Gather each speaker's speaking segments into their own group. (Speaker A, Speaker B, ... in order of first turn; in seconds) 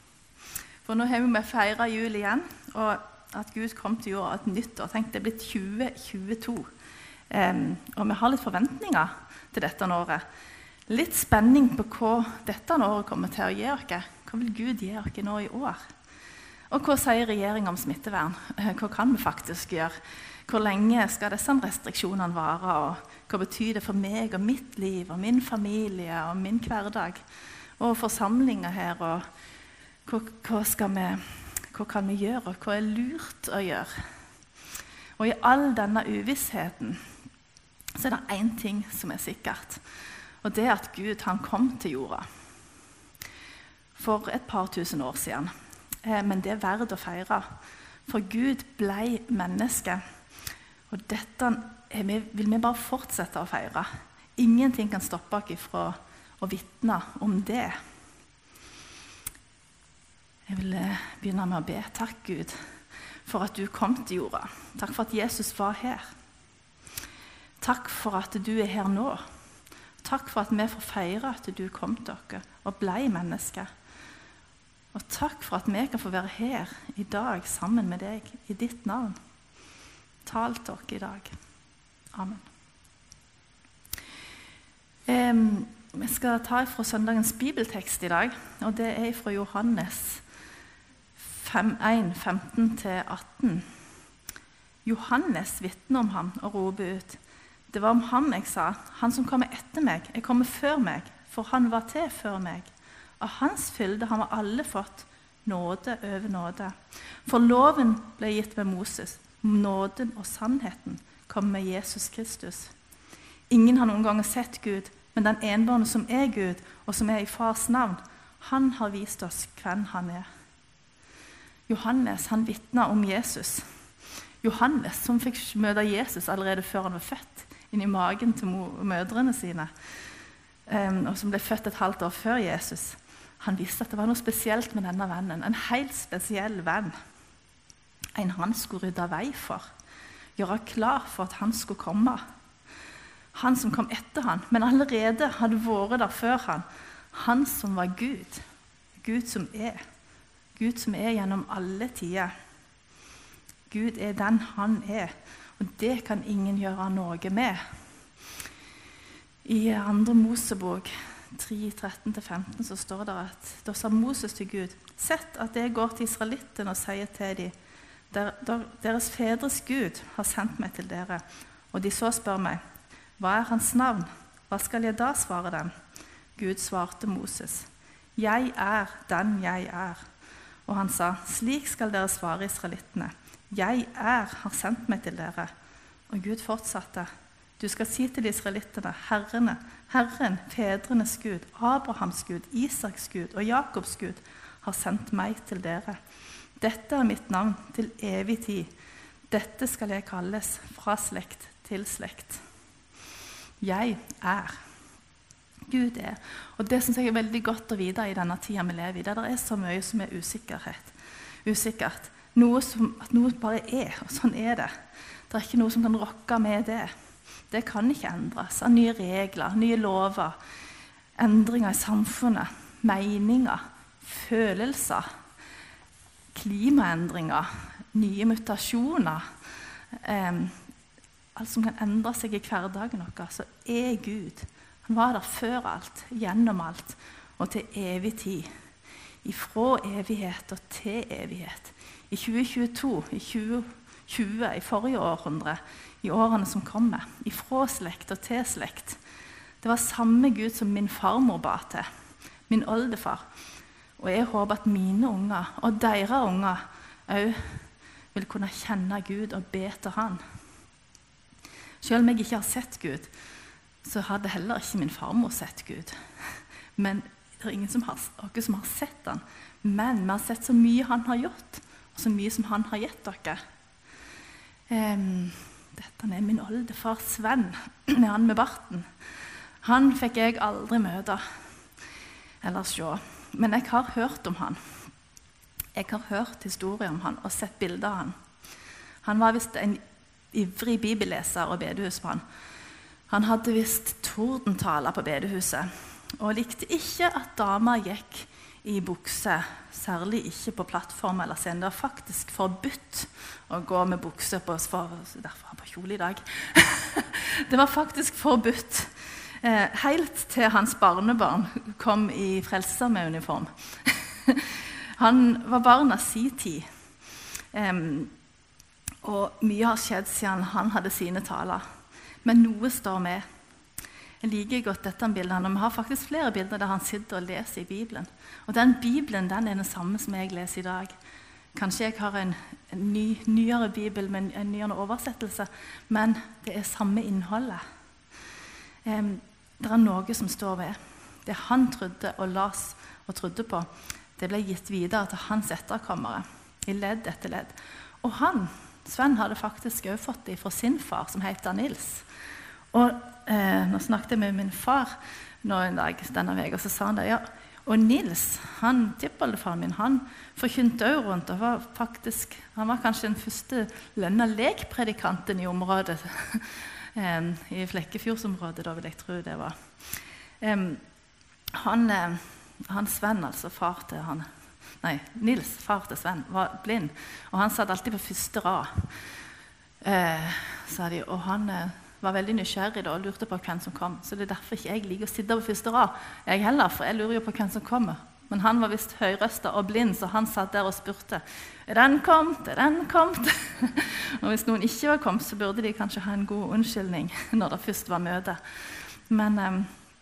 Speaker A: 0.8-6.7, 7.3-10.2, 10.9-15.8, 16.7-27.2, 27.8-29.2, 30.1-34.0, 35.2-37.0, 37.9-39.8, 40.4-42.2, 44.0-45.5, 46.0-47.5, 48.1-50.0, 50.9-57.8, 60.5-62.6, 63.2-66.1, 67.6-69.2, 70.0-73.7, 74.9-79.2, 80.2-81.3, 82.1-82.5, 85.1-90.2, 91.2-93.7, 94.8-112.7, 113.5-120.3, 121.7-123.7, 124.4-129.7, 130.7-136.9, 138.2-139.7, 140.4-142.2, 143.3-148.4, 149.0-149.8, 150.6-152.3, 153.7-157.6, 159.4-167.5, 168.1-172.6, 173.2-175.7, 176.4-180.0, 180.7-185.5, 186.1-196.0, 196.6-198.7, 199.3-202.4, 203.6-204.6, 205.7-214.7, 215.3-216.9, 217.5-220.4, 221.2-225.1, 226.3-229.3, 229.9-230.6, 231.3-238.5, 239.2-249.0, 249.6-251.8, 252.5-253.2, 254.0-260.2, 261.8-263.1, 263.8-273.4, 274.7-278.9, 279.6-281.2, 282.4-284.6, 285.8-288.1, 289.0-289.8, 290.3-292.2, 293.1-316.7, 317.5-318.1, 319.0-321.6, 322.2-323.2, 324.2-330.9, 331.5-337.6, 338.8-352.1, 352.7-369.6, 370.4-370.8, 371.5-374.3, 374.8-378.9, 379.8-399.7